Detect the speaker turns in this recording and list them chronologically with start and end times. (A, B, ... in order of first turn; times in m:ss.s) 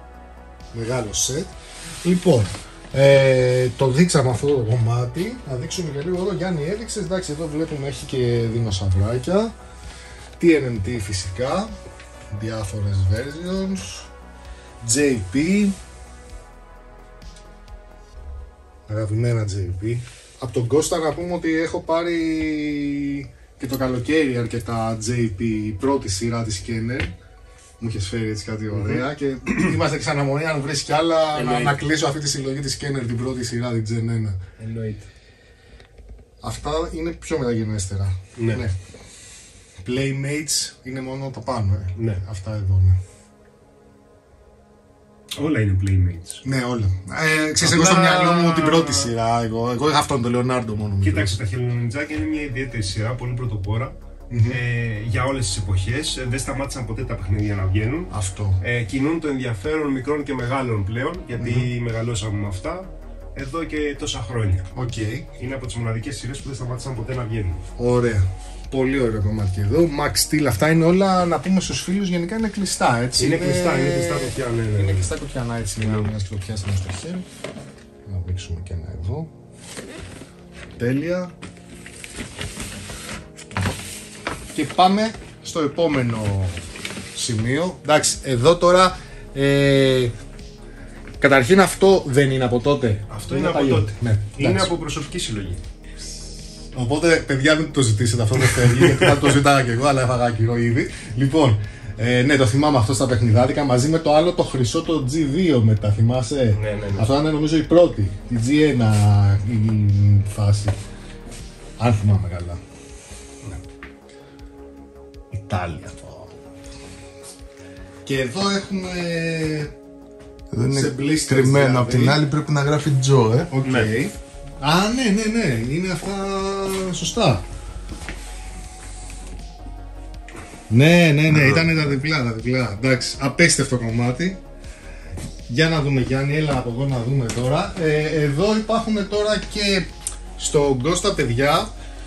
0:00.7-0:09.5 A
0:10.4-0:11.7 A
0:12.3-0:14.1 A
0:14.8-0:15.8 A
0:18.9-0:27.1 A
0:27.8-0:34.4 A
0:28.7-0:29.7 B
0:31.3-0:31.8 B
0:34.6-0:35.1 B
0:36.4-0:38.8 A
0:38.4-0:38.6 B
0:39.8-0:43.0 A
0:42.0-0:42.2 B
0:45.4-0:46.4 B
0:46.4-0:51.3 A
0:47.6-0:49.1 B
0:51.0-0:53.9 B
0:54.3-0:54.6 A
0:54.5-1:04.7 B
0:58.1-0:58.6 A
1:01.4-1:01.7 A
1:04.7-1:05.2 A
1:05.4-1:07.6 B
1:07.8-1:17.2 A
1:13.2-1:15.1 B
1:15.8-1:16.1 B
1:18.0-1:19.3 A
1:20.8-1:21.3 A
1:24.5-1:30.1 A
1:31.2-1:34.7 A
1:33.1-1:35.6 B
1:36.7-1:50.8 A
1:38.4-1:39.3 B
1:46.5-1:47.1 B
1:51.8-1:52.6 A
1:55.3-1:56.4 A
1:58.0-1:59.7 A
2:00.5-2:03.5 C
2:00.6-2:02.8 A
2:01.7-2:02.1 B
2:03.4-2:07.4 A
2:03.6-2:03.9 B
2:10.7-2:14.4 A
2:15.5-2:21.7 A